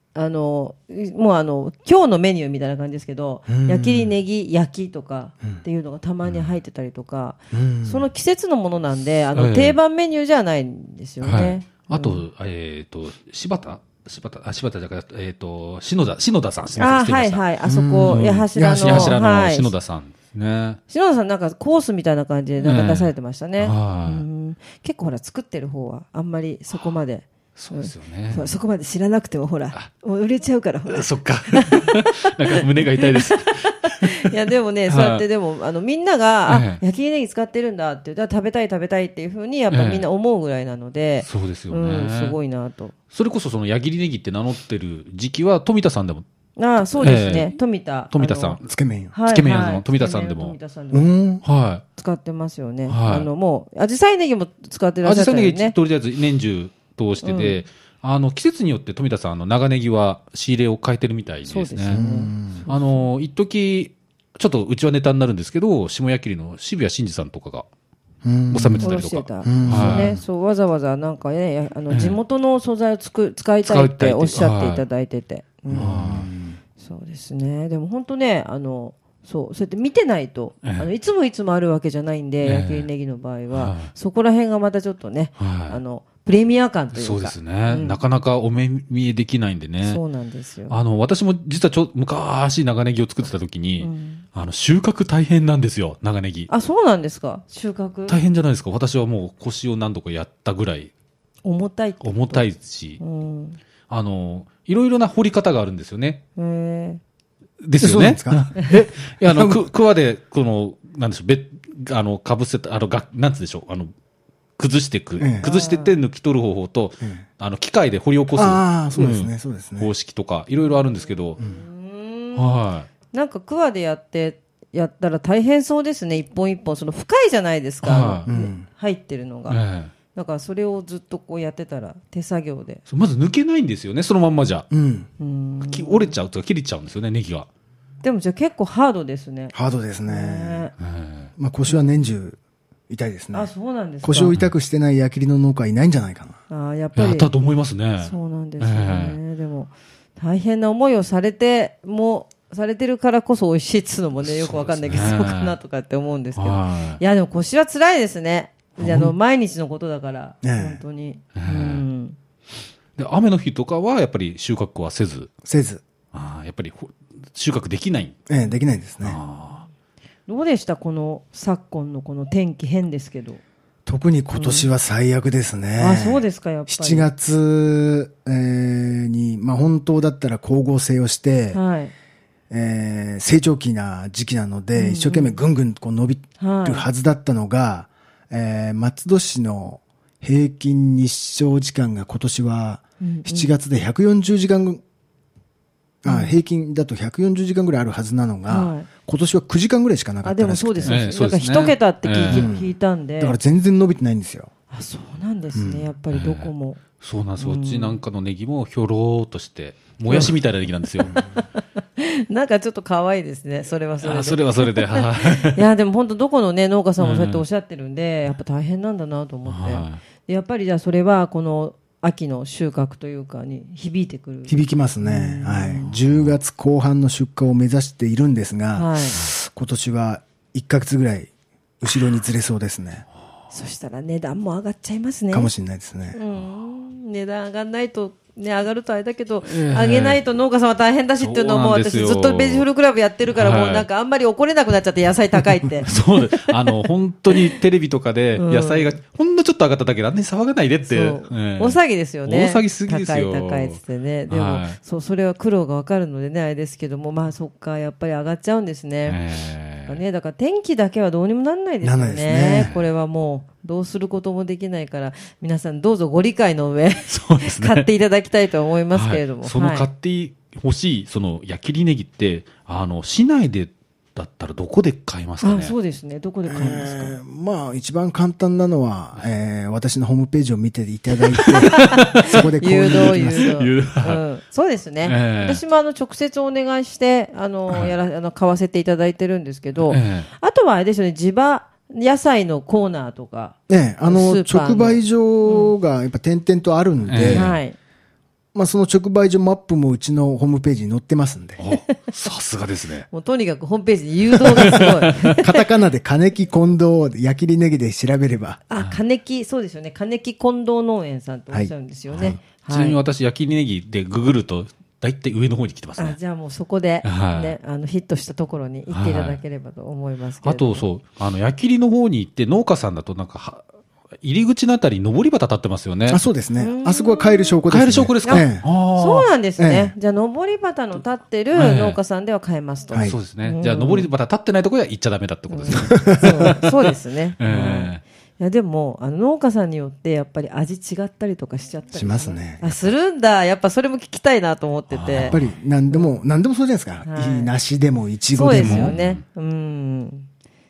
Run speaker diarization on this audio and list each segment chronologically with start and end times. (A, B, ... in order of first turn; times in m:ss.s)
0:00.2-0:12.2 A
0:03.5-0:04.1 B
0:07.5-0:08.1 B
0:09.4-0:09.8 C
0:11.2-0:17.4 C
0:16.8-0:19.7 A
0:17.6-0:19.2 B
0:18.0-0:20.8 C
0:20.9-0:42.9 A
0:22.6-0:24.2 C
0:27.6-0:28.5 C
0:30.9-0:34.3 C
0:34.9-0:35.2 C
0:36.5-0:36.8 C
0:39.7-0:40.0 C
0:41.2-0:42.4 C
0:43.1-0:46.2 C
0:46.6-0:48.6 A
0:47.0-0:47.6 C
0:48.1-0:48.7 C
0:48.7-0:49.1 B
0:49.1-0:51.1 A
0:49.3-0:50.6 C
0:50.9-0:51.4 B
0:51.4-0:51.8 C
0:52.0-0:55.8 A
0:52.9-0:53.3 C
0:55.0-1:02.0 C
0:57.2-0:57.6 A
1:01.5-1:03.1 A
1:01.9-1:02.6 B
1:02.7-1:07.7 C
1:08.2-1:10.2 B
1:08.5-1:10.2 C
1:08.8-1:16.0 A
1:11.9-1:12.2 C
1:13.6-1:14.8 C
1:15.7-1:16.6 B
1:15.8-1:16.3 C
1:16.8-1:28.0 A
1:20.6-1:20.9 C
1:22.4-1:22.9 C
1:23.5-1:23.9 C
1:25.4-1:25.8 C
1:26.9-1:30.0 C
1:29.8-1:30.8 A
1:30.7-1:36.5 C
1:33.8-1:34.2 A
1:36.5-1:38.2 A
1:38.1-1:40.9 C
1:41.4-1:42.4 A
1:42.0-1:43.0 C
1:43.0-1:43.6 A
1:43.9-1:46.2 C
1:46.4-1:47.0 A
1:47.6-1:53.9 C
1:47.8-1:48.6 B
1:49.2-1:49.6 B
1:54.6-2:01.4 C
1:55.2-1:55.4 B
1:55.4-1:55.9 A
1:58.3-1:59.9 B
2:00.6-2:02.6 A
2:02.4-2:02.9 C
2:03.1-2:09.6 A
2:07.8-2:08.3 C
2:08.3-2:08.7 B
2:09.5-2:09.9 C
2:10.1-2:12.8 A
2:12.9-2:14.7 C
2:14.7-2:15.1 B
2:15.2-2:16.2 A
2:15.6-2:17.5 C
2:18.0-2:19.5 A
2:19.5-2:20.7 B
2:20.1-2:20.7 A
2:20.8-2:21.3 C
2:21.4-2:22.4 B
2:22.9-2:23.5 B
2:23.3-2:24.3 A
2:24.0-2:26.4 B
2:26.5-2:27.3 A
2:27.0-2:29.2 C
2:28.0-2:42.2 A
2:34.2-2:35.6 C
2:36.4-2:37.0 C
2:38.8-2:39.1 C
2:40.4-2:40.8 B
2:41.4-2:41.8 C
2:43.0-2:45.3 C
2:45.4-2:45.8 B
2:46.1-2:48.2 C
2:48.3-2:49.2 B
2:49.0-2:49.6 C
2:50.3-2:53.4 A
2:53.9-3:01.6 B
2:54.4-2:54.7 A
2:55.8-2:57.1 A
3:01.5-3:01.9 A
3:02.5-3:14.8 B
3:04.8-3:05.4 A
3:06.4-3:06.9 A
3:13.0-3:13.5 A
3:16.0-3:21.0 B
3:16.1-3:16.4 A
3:18.5-3:18.9 A
3:20.2-3:23.4 A
3:20.8-3:22.5 C
3:22.3-3:24.5 B
3:24.7-3:26.8 A
3:25.5-3:25.8 B
3:26.1-3:31.1 C
3:27.4-3:28.0 A
3:30.1-3:30.3 A
3:31.1-3:45.9 A
3:34.0-3:35.6 C
3:37.0-3:37.4 C
3:39.5-3:40.0 C
3:44.5-3:51.3 B
3:48.8-3:49.2 A
3:51.8-3:53.0 B
3:53.5-3:55.5 A
3:55.3-3:56.2 B
3:56.1-4:06.8 A
3:59.4-4:00.2 C
4:01.2-4:02.7 C
4:03.3-4:03.9 C
4:05.8-4:14.8 C
4:08.4-4:08.9 A
4:10.8-4:19.2 A
4:19.1-4:20.0 C
4:19.8-4:29.9 A
4:21.8-4:22.7 B
4:22.6-4:22.8 C
4:27.1-4:27.9 C
4:28.9-4:35.8 C
4:35.4-4:37.2 A
4:36.5-4:43.6 B
4:41.4-4:44.2 C
4:41.8-4:55.7 A
4:45.0-4:45.6 C
4:47.7-4:47.9 C
4:49.9-4:50.3 C
4:53.7-4:57.5 B
4:57.1-4:57.6 C
4:57.3-4:57.8 A
4:58.5-5:01.6 B
5:01.6-5:03.1 C
5:03.1-5:05.4 A
5:04.4-5:05.0 C
5:05.3-5:08.6 B
5:08.7-5:13.0 A
5:12.1-5:16.2 C
5:16.0-5:20.9 A
5:17.0-5:17.6 C
5:18.9-5:19.4 C
5:20.4-5:23.6 C
5:24.2-5:26.2 C
5:26.1-5:28.7 B
5:26.6-5:27.6 A
5:27.7-5:29.3 C
5:28.2-5:34.1 A
5:29.6-5:29.9 B
5:31.5-5:32.0 C
5:32.9-5:33.2 B
5:33.0-5:36.7 C
5:35.5-5:46.1 A
5:35.9-5:36.4 B
5:37.4-5:38.0 C
5:41.9-5:42.7 B
5:44.9-5:45.5 C
5:45.2-5:49.0 B
5:47.0-5:47.5 A
5:48.3-5:50.3 A
5:48.5-5:49.2 C